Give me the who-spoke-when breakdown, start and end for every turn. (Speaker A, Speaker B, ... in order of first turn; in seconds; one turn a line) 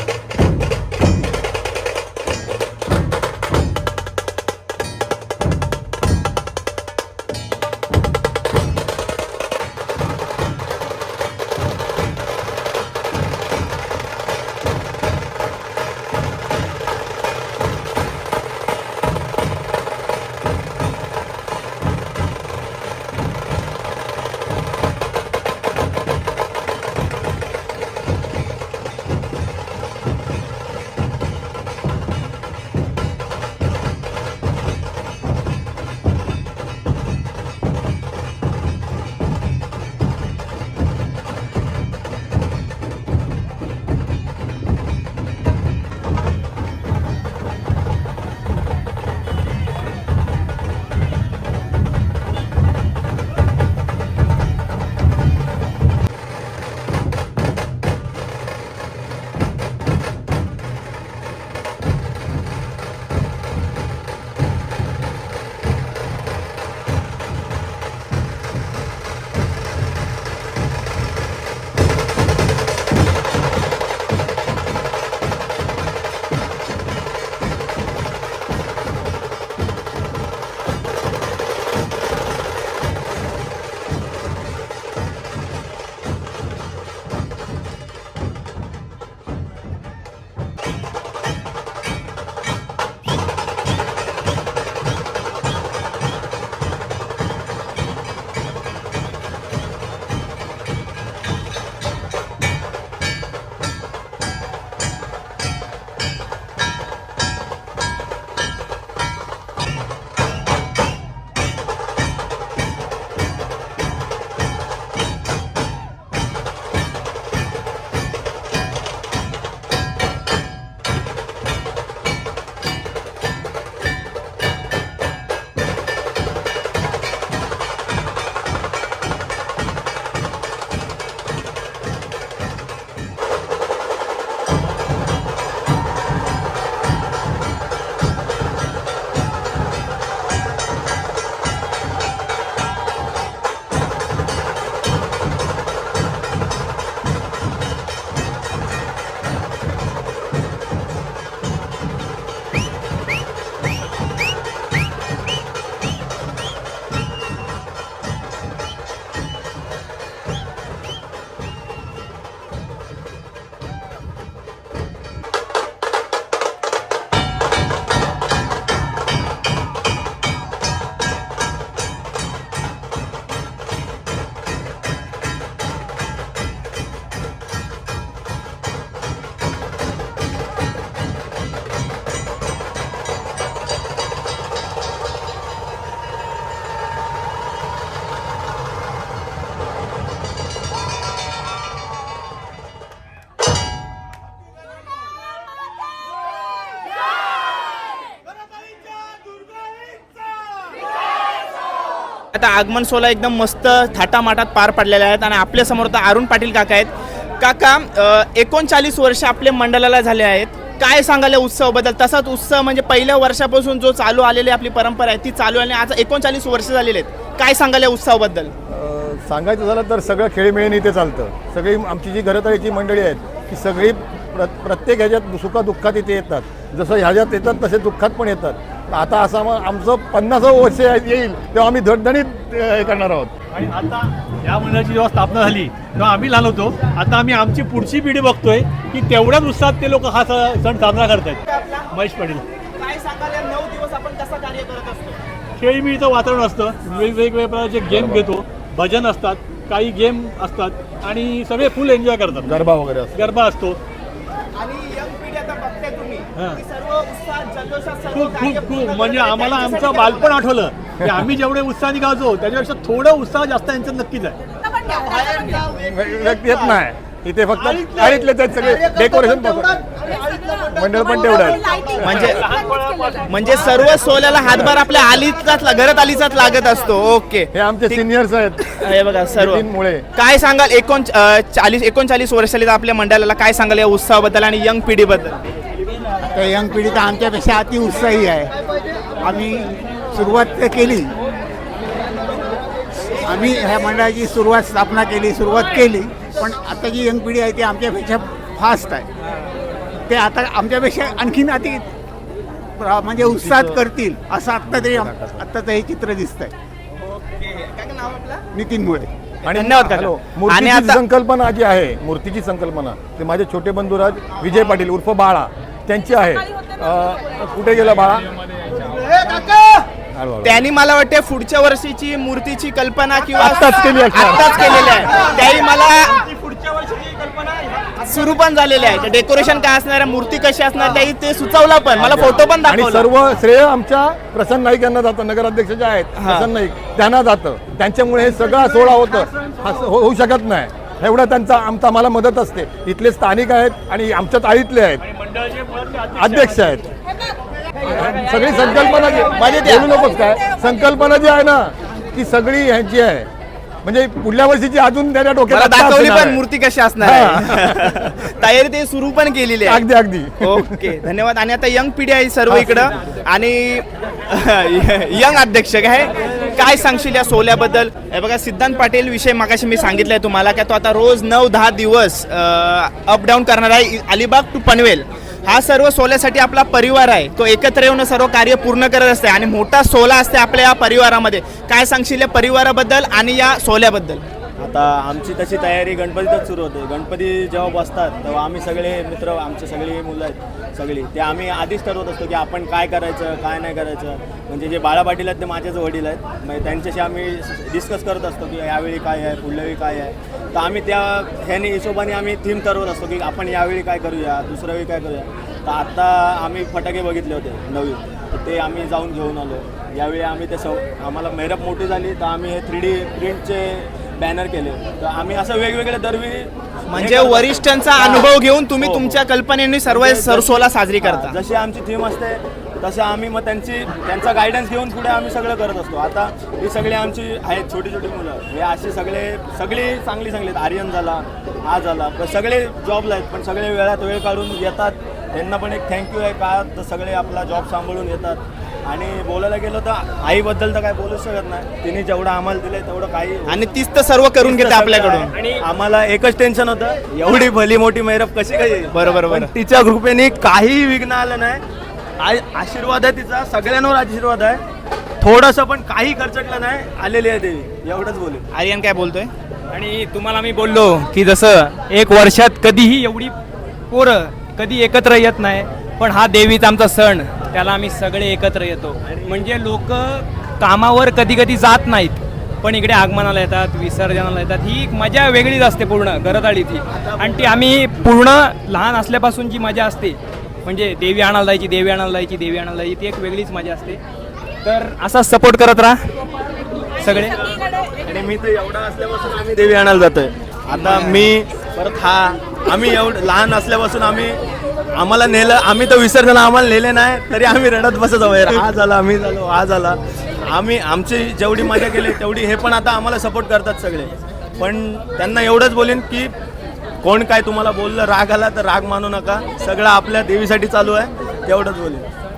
Speaker A: 202.3-218.5
Speaker B: 218.7-233.3
Speaker C: 233.5-241.4
Speaker A: 241.5-241.9
Speaker C: 241.9-242.4
Speaker A: 242.7-245.2
Speaker C: 245.6-252.6
Speaker B: 247.8-248.3
Speaker B: 252.4-253.2
Speaker C: 253.1-253.8
Speaker A: 254.5-260.5
Speaker C: 256.4-256.6
Speaker C: 258.1-264.4
Speaker B: 265.8-270.0
Speaker C: 267.8-268.2
Speaker B: 270.7-272.4
Speaker C: 271.7-274.5
Speaker A: 272.0-272.4
Speaker A: 273.3-278.0
Speaker B: 277.5-280.0
Speaker A: 278.8-285.4
Speaker D: 286.3-288.5
Speaker D: 289.2-291.1
Speaker D: 293.2-299.1
Speaker D: 300.1-301.9
Speaker D: 302.8-306.5
Speaker A: 307.0-308.4
Speaker D: 308.5-309.1
Speaker B: 309.4-318.3
Speaker A: 309.5-311.0
Speaker C: 318.6-319.1
Speaker B: 320.1-320.6
Speaker A: 320.4-326.3
Speaker B: 323.4-325.3
Speaker C: 326.7-327.7
Speaker A: 328.0-333.1
Speaker B: 332.0-345.0
Speaker A: 336.2-336.5
Speaker C: 338.9-339.6
Speaker C: 345.0-346.8
Speaker B: 346.1-346.9
Speaker B: 347.9-353.3
Speaker A: 349.3-349.9
Speaker B: 353.8-356.4
Speaker A: 355.5-359.8
Speaker B: 357.0-358.2
Speaker B: 359.6-361.0
Speaker A: 360.4-384.2
Speaker B: 362.5-362.9
Speaker E: 384.6-419.2
Speaker A: 416.9-421.4
Speaker E: 419.9-443.6
Speaker A: 443.5-445.3
Speaker E: 444.4-451.6
Speaker F: 445.3-445.6
Speaker A: 448.9-449.5
Speaker E: 452.2-454.6
Speaker E: 455.2-458.4
Speaker A: 458.5-459.3
Speaker F: 459.7-463.3
Speaker F: 463.9-484.0
Speaker E: 469.0-469.4
Speaker E: 476.9-477.6
Speaker F: 484.6-486.1
Speaker F: 486.9-487.4
Speaker E: 488.0-494.4
Speaker F: 490.8-491.2
Speaker E: 494.9-506.3
Speaker E: 507.0-512.0